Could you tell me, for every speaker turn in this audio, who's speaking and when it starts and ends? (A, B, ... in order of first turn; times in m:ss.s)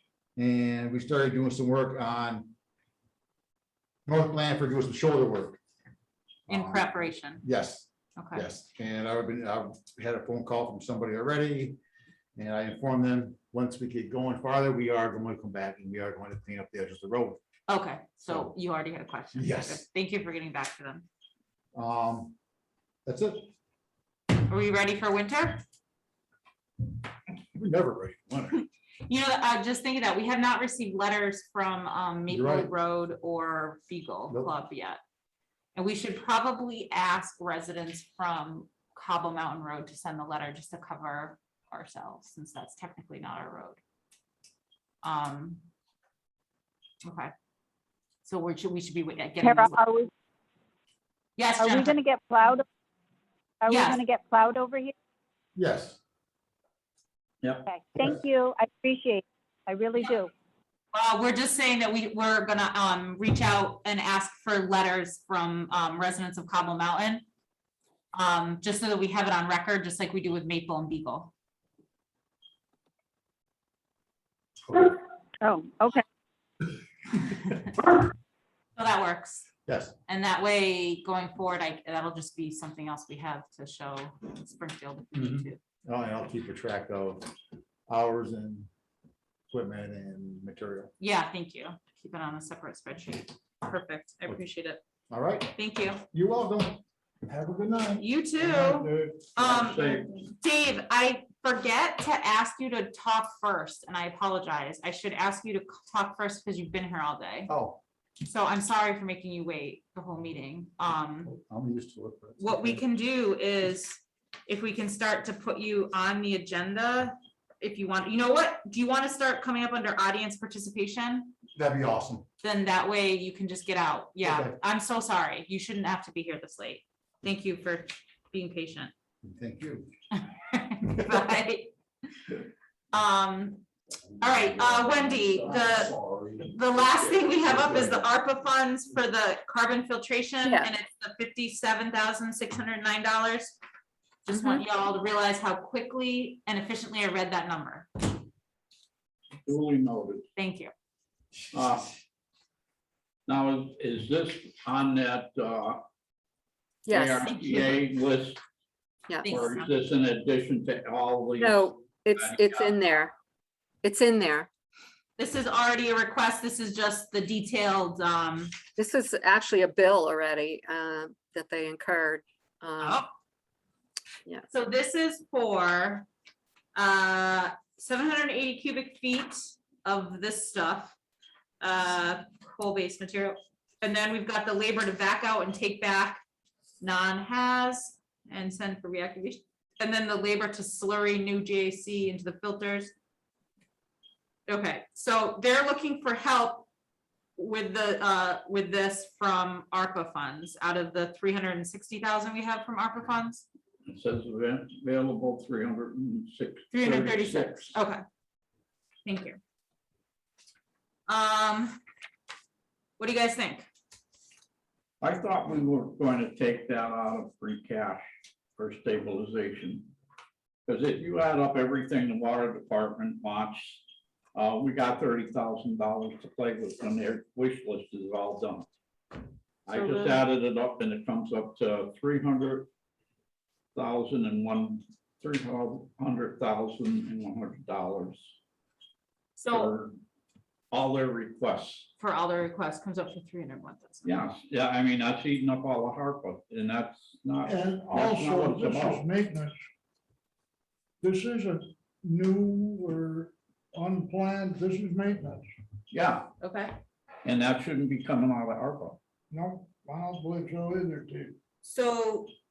0:00.4-0:02.5 A
0:04.0-0:05.6 A
0:06.5-0:11.8 A
0:06.5-0:07.4 B
0:08.2-0:08.5 B
0:12.4-0:17.4 A
0:17.7-0:21.0 B
0:18.2-0:18.5 A
0:19.3-0:19.8 A
0:21.7-0:22.4 A
0:23.0-0:23.5 A
0:24.4-0:25.6 B
0:27.5-0:28.6 A
0:28.6-0:35.0 B
0:32.3-0:32.7 A
0:35.7-0:43.8 B
0:45.0-0:45.6 B
0:47.0-0:47.3 B
0:48.2-0:49.8 B
0:49.4-0:50.1 C
0:51.4-0:52.0 B
0:51.6-0:52.6 C
0:53.6-0:54.9 C
0:53.7-0:54.0 B
0:55.6-0:56.0 A
0:57.7-1:00.3 C
1:00.9-1:07.2 B
1:08.1-1:11.3 B
1:15.4-1:16.0 C
1:18.8-1:19.5 B
1:19.7-1:20.0 A
1:20.1-1:25.6 B
1:25.1-1:27.3 A
1:27.9-1:28.7 A
1:29.5-1:30.9 A
1:31.0-1:34.8 B
1:35.1-1:35.6 A
1:35.6-1:36.0 B
1:36.1-1:39.2 A
1:38.0-1:47.5 B
1:39.4-1:40.1 D
1:47.5-1:47.8 A
1:48.2-1:51.3 B
1:51.3-1:52.8 A
1:52.4-2:01.3 B
2:01.6-2:02.3 A
2:02.4-2:08.9 B
2:04.2-2:04.6 A
2:09.2-2:09.9 A
2:10.2-2:11.7 B
2:12.9-2:13.6 B
2:14.2-2:15.9 B
2:14.6-2:16.4 A
2:16.4-2:23.6 B
2:17.4-2:18.0 A
2:20.4-2:20.7 E
2:24.2-2:28.1 B
2:24.3-2:24.6 E
2:29.4-2:30.2 D
2:30.4-2:30.7 B
2:31.5-2:31.9 D
2:33.3-2:35.8 D
2:36.9-2:37.7 E
2:36.9-2:38.4 D
2:39.1-2:39.4 E
2:39.2-2:39.8 B
2:39.3-2:42.7 D
2:41.4-2:43.1 E
2:43.8-2:44.5 E
2:45.2-2:48.5 B
2:48.8-2:53.0 E
2:52.8-2:53.1 B
2:54.5-2:56.1 B
2:56.8-3:01.0 B
3:01.6-3:06.2 B
3:06.8-3:12.9 B
3:14.5-3:16.7 B
3:17.4-3:23.4 B
3:23.9-3:27.8 D
3:26.7-3:28.0 B
3:29.0-3:29.4 B
3:31.1-3:31.8 B
3:33.0-3:33.7 B
3:35.0-3:39.9 D
3:40.7-3:43.8 D
3:44.3-3:48.7 D
3:49.7-3:52.7 D
3:49.7-3:50.2 B
3:53.8-3:58.3 D
3:59.4-3:59.7 B
3:59.5-4:00.0 D
4:00.7-4:01.9 D
4:02.0-4:04.2 B
4:04.0-4:09.0 D
4:07.4-4:09.6 F
4:11.0-4:15.5 F
4:15.9-4:16.3 D
4:16.4-4:16.8 B
4:17.2-4:19.0 D
4:19.3-4:21.4 F
4:21.6-4:22.3 B